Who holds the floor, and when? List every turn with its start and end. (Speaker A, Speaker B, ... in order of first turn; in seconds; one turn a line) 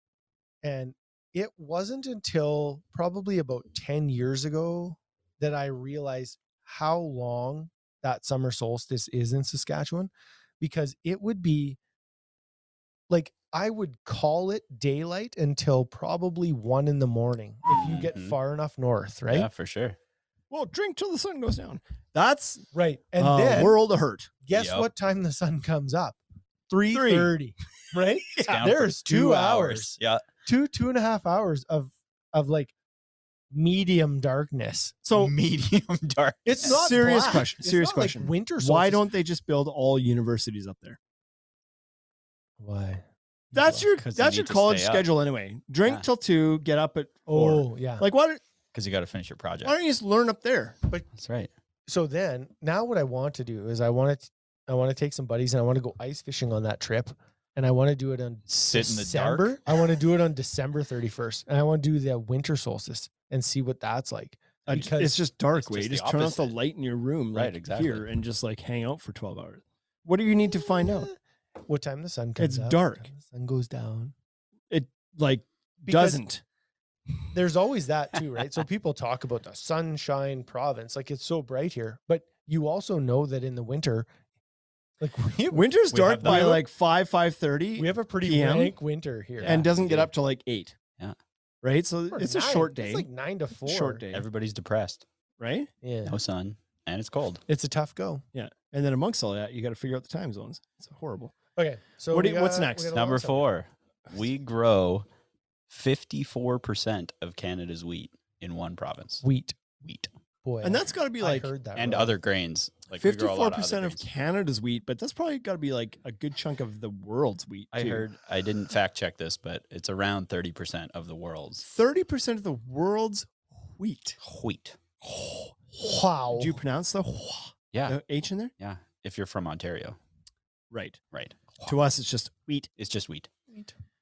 Speaker A: 0.6-11.8
Speaker A: 13.1-19.5
Speaker B: 17.7-18.4
Speaker B: 19.3-20.0
Speaker C: 20.5-22.7
Speaker A: 22.7-23.8
Speaker C: 23.2-24.3
Speaker A: 24.4-32.7
Speaker B: 24.5-24.9
Speaker C: 26.9-27.3
Speaker B: 28.4-30.2
Speaker A: 33.5-35.0
Speaker C: 35.0-35.3
Speaker B: 35.2-36.9
Speaker A: 36.5-39.1
Speaker C: 36.6-41.0
Speaker A: 42.6-43.9
Speaker C: 43.5-48.4
Speaker B: 44.0-45.1
Speaker A: 47.3-48.0
Speaker B: 48.7-49.8
Speaker C: 49.6-50.8
Speaker B: 51.1-51.5
Speaker A: 51.9-65.2
Speaker B: 58.5-59.6
Speaker C: 64.7-71.1
Speaker B: 65.5-66.5
Speaker B: 67.3-68.1
Speaker A: 70.8-71.2
Speaker A: 71.7-74.1
Speaker C: 72.4-73.1
Speaker C: 74.7-76.4
Speaker A: 75.9-76.2
Speaker A: 77.3-84.1
Speaker A: 85.0-85.7
Speaker C: 85.5-88.8
Speaker B: 85.9-86.6
Speaker A: 87.8-89.6
Speaker B: 89.4-90.1
Speaker C: 89.4-90.8
Speaker C: 91.6-93.1
Speaker A: 92.1-94.0
Speaker C: 93.7-94.2
Speaker B: 94.1-95.0
Speaker C: 95.4-95.7
Speaker A: 95.8-96.2
Speaker B: 96.0-97.4
Speaker A: 97.5-98.2
Speaker C: 98.3-101.3
Speaker A: 101.6-103.5
Speaker C: 102.1-102.9
Speaker B: 102.9-105.1
Speaker B: 105.7-109.2
Speaker A: 109.2-109.6
Speaker B: 109.8-110.1
Speaker A: 110.4-112.2
Speaker C: 110.6-111.5
Speaker B: 111.8-114.0
Speaker C: 113.0-118.1
Speaker B: 117.7-121.6
Speaker C: 121.6-124.2
Speaker B: 124.2-124.8
Speaker C: 125.0-125.5
Speaker A: 125.7-126.6
Speaker C: 126.3-128.5
Speaker B: 127.7-128.0
Speaker B: 128.6-130.0
Speaker C: 130.7-131.0
Speaker B: 131.1-131.8
Speaker C: 131.6-132.7
Speaker B: 132.8-133.3